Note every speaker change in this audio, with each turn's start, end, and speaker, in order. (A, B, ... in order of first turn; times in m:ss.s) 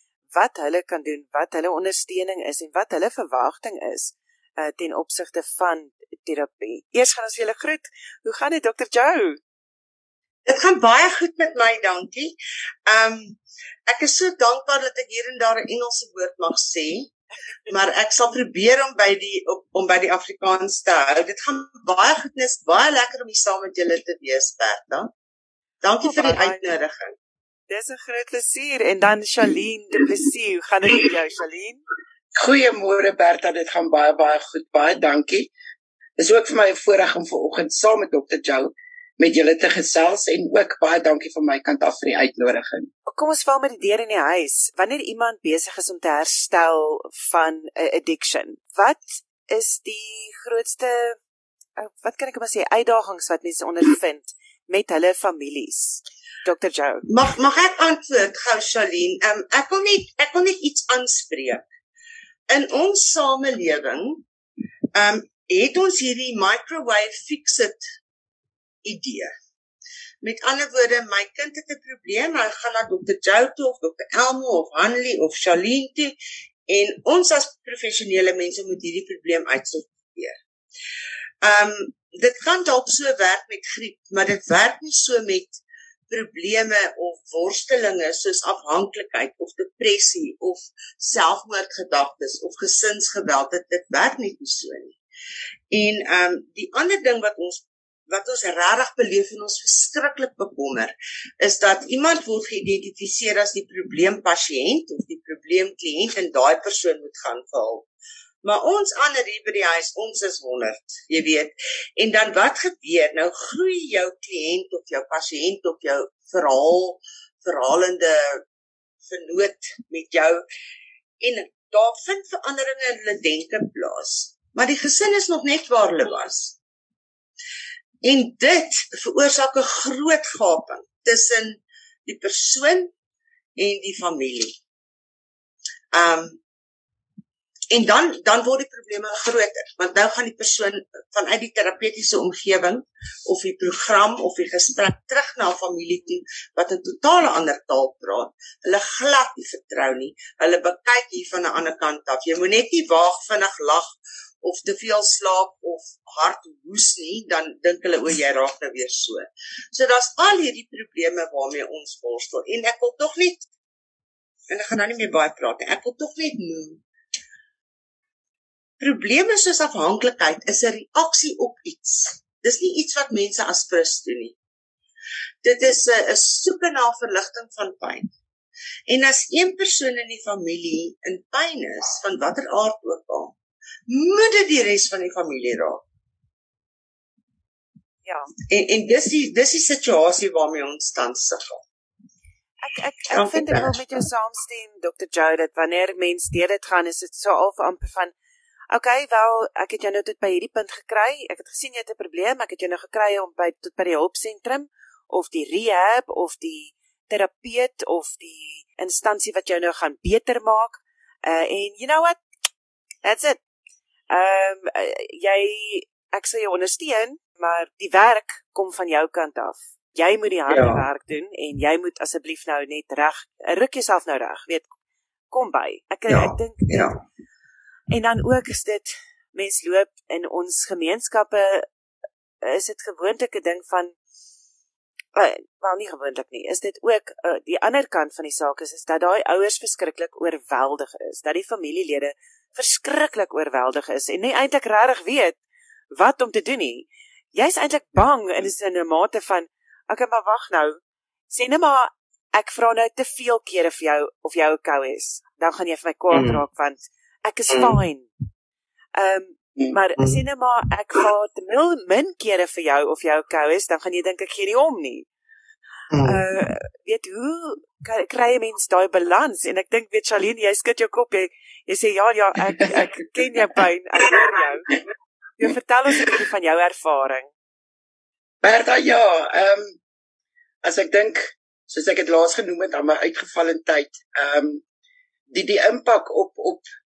0:00.3-0:09.4 A
0:10.5-0:12.4 B
0:12.9-0:17.1 B
0:17.7-0:25.1 B
0:25.8-0:27.1 B
0:26.0-0:26.7 A
0:27.7-0:31.8 A
0:32.3-0:35.5 C
0:36.2-0:42.9 C
0:43.0-0:51.2 A
0:51.8-0:57.1 A
0:57.1-1:01.6 B
1:02.5-1:04.2 B
1:05.0-1:07.9 B
1:08.8-1:09.3 B
1:10.2-1:20.4 B
1:21.4-1:35.0 B
1:35.7-1:47.9 B
1:48.4-1:58.4 B
1:59.0-2:00.4 B
2:01.2-2:06.6 B
2:08.0-2:12.9 B
2:13.6-2:14.6 B
2:15.9-2:16.4 B
2:17.7-2:43.5 B
2:44.5-2:46.8 B
2:48.8-2:54.4 B
2:55.4-2:58.1 B
2:58.9-3:03.4 B
3:03.9-3:05.8 B
3:08.0-3:08.3 A
3:08.5-3:11.6 B
3:12.6-3:18.1 A
3:13.1-3:14.0 B
3:18.7-3:32.2 A
3:33.0-3:33.4 A
3:34.1-3:44.7 A
3:40.5-3:40.8 B
3:45.3-3:46.9 A
3:46.1-3:47.0 B
3:47.9-3:51.7 A
3:52.4-3:54.0 A
3:55.2-4:05.4 A
4:05.9-4:18.1 A
4:16.1-4:16.4 B
4:19.0-4:25.1 A
4:25.9-4:26.2 B
4:26.0-4:34.8 A
4:35.4-4:37.3 A
4:38.4-4:39.8 C
4:40.6-4:44.6 C
4:45.3-4:46.7 C